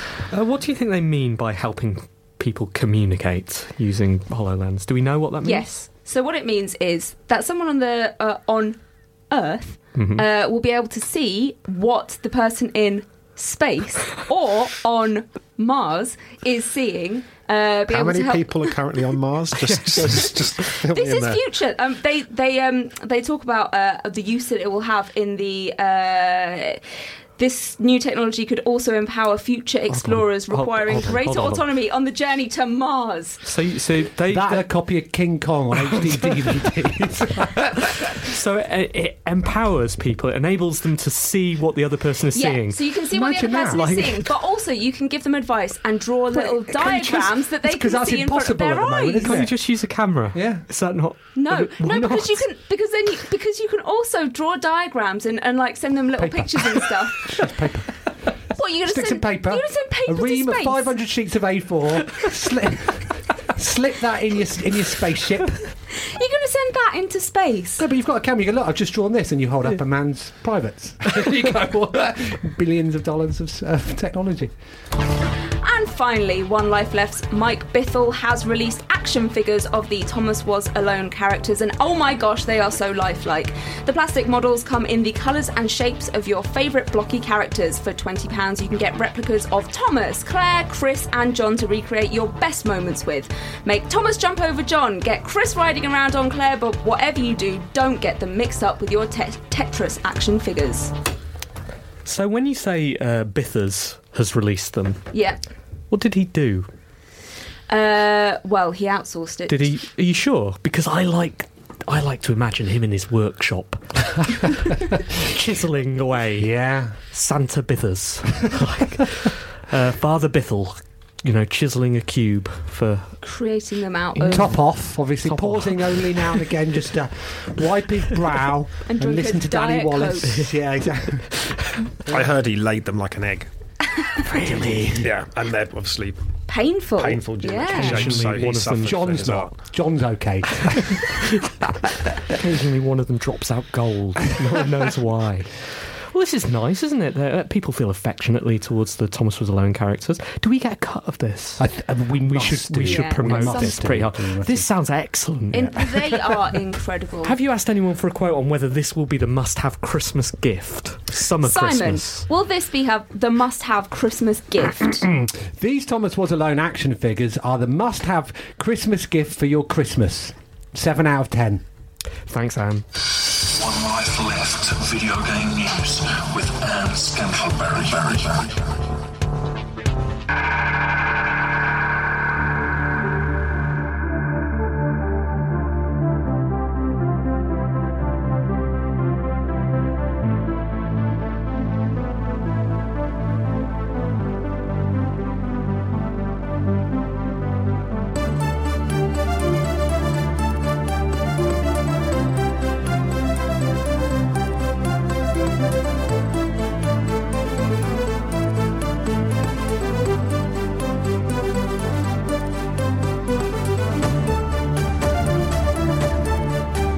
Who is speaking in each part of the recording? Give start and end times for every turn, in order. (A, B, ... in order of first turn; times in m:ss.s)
0:00.3-0:05.8 A
0:05.4-0:18.8 B
0:09.9-0:10.2 A
0:17.9-0:21.4 C
0:20.9-0:26.8 B
0:27.4-0:33.4 B
0:29.9-0:31.6 A
0:33.4-0:34.7 A
0:34.3-0:37.9 D
0:35.9-0:36.3 A
0:38.1-0:42.8 A
0:42.3-0:49.5 B
0:43.1-0:44.0 D
0:43.7-0:44.1 A
0:46.3-0:50.7 D
0:49.2-0:51.7 A
0:51.3-0:57.4 B
0:51.7-0:52.4 D
0:56.2-0:58.0 D
0:58.6-1:00.9 B
0:58.8-1:05.6 D
1:06.1-1:07.8 B
1:07.8-1:14.5 D
1:15.6-1:40.9 B
1:42.0-1:45.1 A
1:45.1-1:45.4 B
1:45.9-1:46.7 A
1:47.7-1:49.7 B
1:49.5-2:03.2 A
1:56.4-1:57.0 D
2:03.2-2:04.6 B
2:04.1-2:06.5 A
2:04.3-2:11.4 D
2:08.9-2:10.5 B
2:10.3-2:11.3 A
2:12.0-2:13.5 C
2:14.2-2:15.1 A
2:15.0-2:16.2 C
2:16.5-2:18.0 B
2:17.0-2:19.6 C
2:17.7-2:19.0 A
2:18.0-2:21.1 D
2:22.4-2:35.8 A
2:31.6-2:34.7 D
2:32.8-2:34.0 B
2:35.5-2:37.4 B
2:37.2-2:42.2 A
2:41.4-2:45.0 B
2:44.8-2:51.6 D
2:52.3-2:52.8 A
2:53.4-2:58.7 E